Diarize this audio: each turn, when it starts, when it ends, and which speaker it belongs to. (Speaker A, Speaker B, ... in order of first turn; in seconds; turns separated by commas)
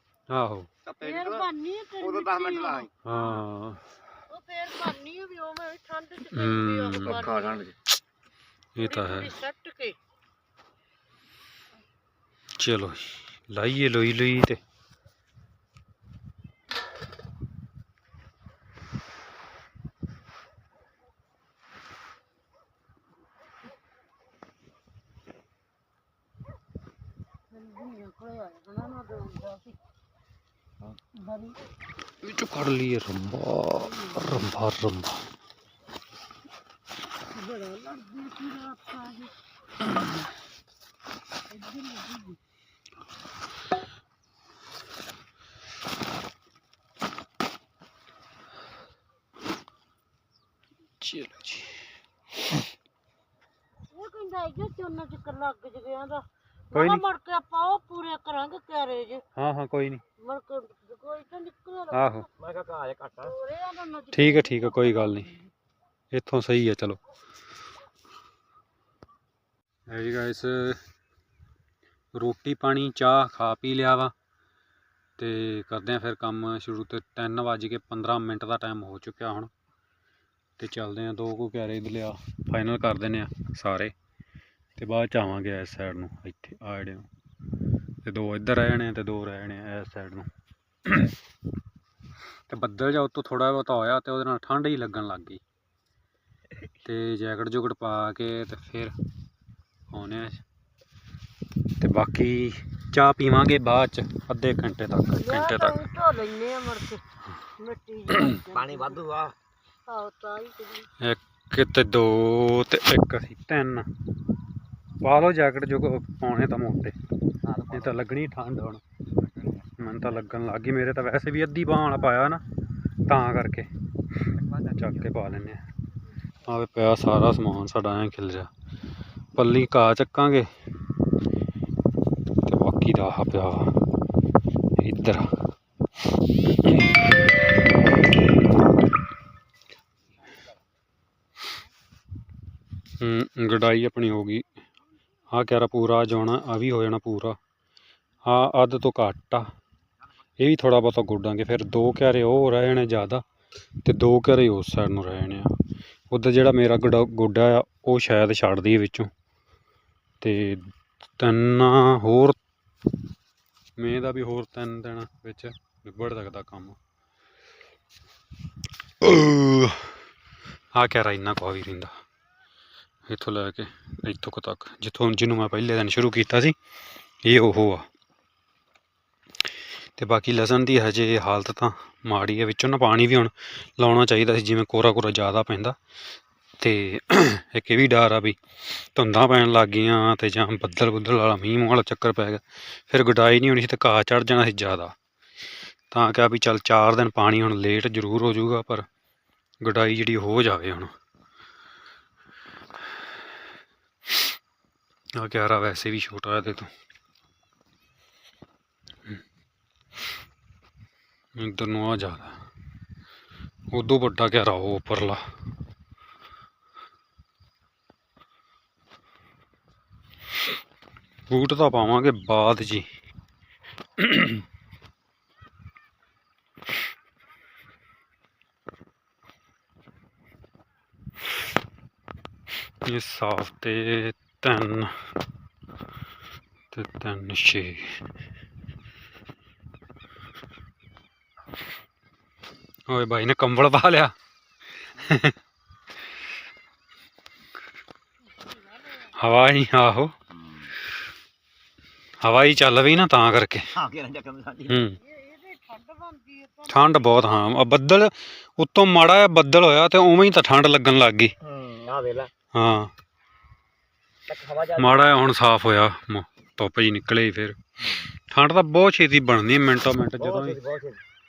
Speaker A: 0.3-0.7, Speaker B: 1.0-3.4, Speaker C: 2.2-2.6, Speaker A: 3.0-3.8, Speaker B: 4.3-7.7, Speaker A: 6.2-7.4, Speaker C: 7.3-7.7, Speaker A: 8.8-9.4, Speaker B: 8.8-10.0, Speaker A: 12.6-14.6, Speaker B: 27.5-29.8, Speaker B: 31.1-31.6, Speaker A: 32.2-35.2, Speaker B: 37.3-39.3, Speaker B: 41.5-42.4, Speaker A: 51.0-51.8, Speaker B: 53.9-59.2, Speaker A: 56.7-57.0, Speaker A: 59.4-60.0, Speaker B: 60.2-62.2, Speaker A: 61.9-62.3, Speaker C: 62.4-63.3, Speaker B: 63.2-65.3, Speaker A: 64.1-65.4, Speaker A: 66.1-67.0, Speaker A: 69.9-70.8, Speaker A: 72.1-74.1, Speaker A: 75.2-79.5, Speaker A: 80.6-83.9, Speaker A: 84.8-87.1, Speaker A: 88.0-90.3, Speaker A: 90.9-91.2, Speaker A: 92.5-95.4, Speaker A: 96.8-98.9, Speaker A: 99.9-100.4, Speaker A: 101.8-105.8, Speaker B: 105.1-107.0, Speaker B: 107.6-109.0, Speaker C: 108.5-109.3, Speaker B: 109.9-110.9, Speaker A: 111.0-113.9, Speaker A: 115.0-117.0, Speaker C: 117.5-117.9, Speaker A: 117.6-118.8, Speaker A: 119.8-122.4, Speaker A: 123.1-123.7, Speaker C: 124.4-124.8, Speaker A: 124.5-125.6, Speaker A: 126.4-128.5, Speaker A: 129.3-130.5, Speaker A: 132.4-133.9, Speaker A: 134.8-135.3, Speaker A: 136.7-137.0, Speaker A: 143.0-144.5, Speaker A: 145.3-147.4, Speaker A: 148.2-149.5, Speaker A: 150.4-153.2, Speaker A: 153.8-155.5, Speaker A: 156.1-159.1, Speaker A: 160.2-162.4, Speaker A: 163.8-166.8, Speaker A: 169.0-169.9, Speaker A: 170.7-171.9, Speaker A: 173.1-176.6, Speaker A: 177.2-177.8, Speaker A: 180.0-185.8, Speaker A: 186.6-194.9, Speaker A: 195.9-198.8, Speaker A: 199.6-200.9, Speaker A: 205.1-206.7, Speaker A: 211.3-212.4, Speaker A: 213.7-215.2, Speaker A: 221.3-222.9, Speaker A: 224.0-224.4, Speaker A: 232.8-234.9, Speaker A: 236.7-238.0, Speaker A: 242.9-244.1, Speaker A: 244.9-245.3, Speaker A: 249.0-250.1, Speaker A: 252.2-253.7, Speaker C: 253.8-254.8, Speaker A: 254.7-255.0, Speaker B: 255.1-256.6, Speaker A: 256.6-261.3, Speaker C: 261.4-262.3, Speaker A: 262.5-262.9, Speaker C: 264.3-265.0, Speaker A: 264.7-267.6, Speaker A: 268.3-270.6, Speaker C: 270.2-271.0